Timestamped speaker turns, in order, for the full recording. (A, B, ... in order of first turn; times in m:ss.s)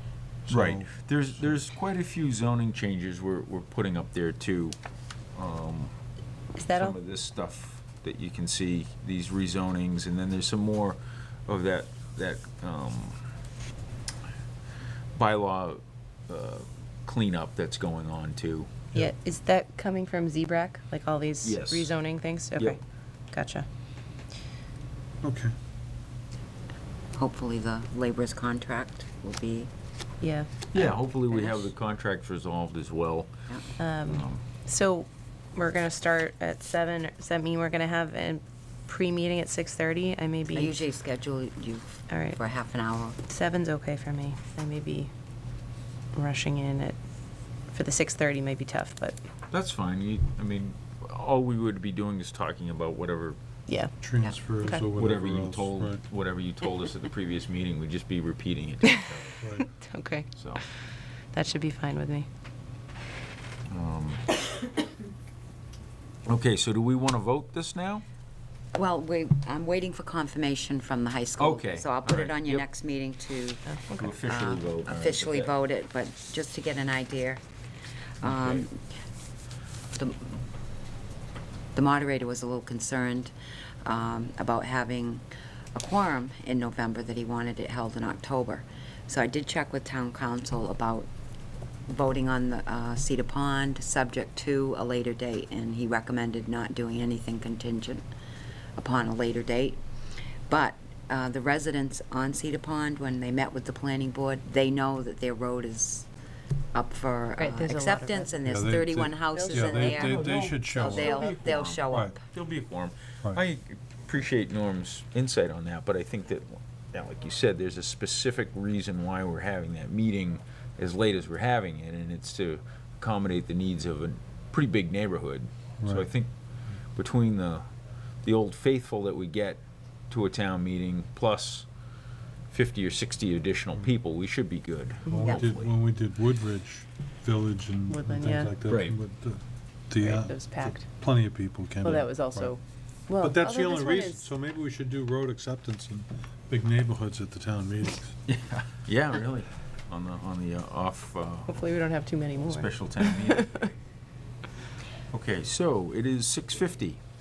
0:00.5-0:01.6 A
0:00.5-0:04.8 B
0:05.4-0:06.0 B
0:06.6-0:07.0 C
0:06.7-0:13.2 B
0:15.1-0:18.7 B
0:18.9-0:22.8 C
0:21.4-0:21.9 B
0:23.3-0:23.7 C
0:25.2-0:25.5 A
0:27.2-0:29.7 D
0:30.2-0:30.8 C
0:30.7-0:33.3 B
0:33.8-0:40.8 C
0:34.1-0:34.4 B
0:40.5-0:43.2 D
0:42.1-0:42.4 C
0:43.3-0:45.1 C
0:46.1-0:47.0 C
0:47.7-0:49.2 C
0:49.5-0:53.4 B
0:53.7-0:53.9 C
0:54.0-0:56.0 A
0:55.0-0:59.4 B
0:59.6-1:00.3 C
1:00.4-1:00.6 B
1:01.3-1:02.3 C
1:03.7-1:04.3 B
1:06.3-1:08.0 B
1:08.8-1:17.4 D
1:11.4-1:12.7 B
1:13.9-1:15.5 B
1:18.2-1:18.8 D
1:18.2-1:18.7 B
1:20.0-1:20.4 D
1:21.8-1:23.3 D
1:23.8-1:25.2 D
1:25.8-1:31.1 D
1:31.9-1:38.0 D
1:38.8-1:39.8 D
1:40.5-1:46.1 D
1:46.7-1:52.2 D
1:47.4-1:48.6 C
1:48.5-1:51.2 A
1:49.4-1:50.4 C
1:50.1-2:06.3 B
1:51.9-1:52.2 A
2:05.8-2:06.1 A
2:07.0-2:07.7 B
2:08.2-2:11.7 B
2:12.5-2:15.5 B
2:15.1-2:22.6 A
2:15.2-2:15.5 D
2:17.9-2:18.5 C
2:18.7-2:19.0 B
2:20.0-2:20.9 C
2:21.8-2:24.3 C
2:23.2-2:28.2 A
2:28.3-2:31.5 B
2:31.5-2:33.6 C
2:32.5-2:33.8 B
2:35.1-2:37.0 B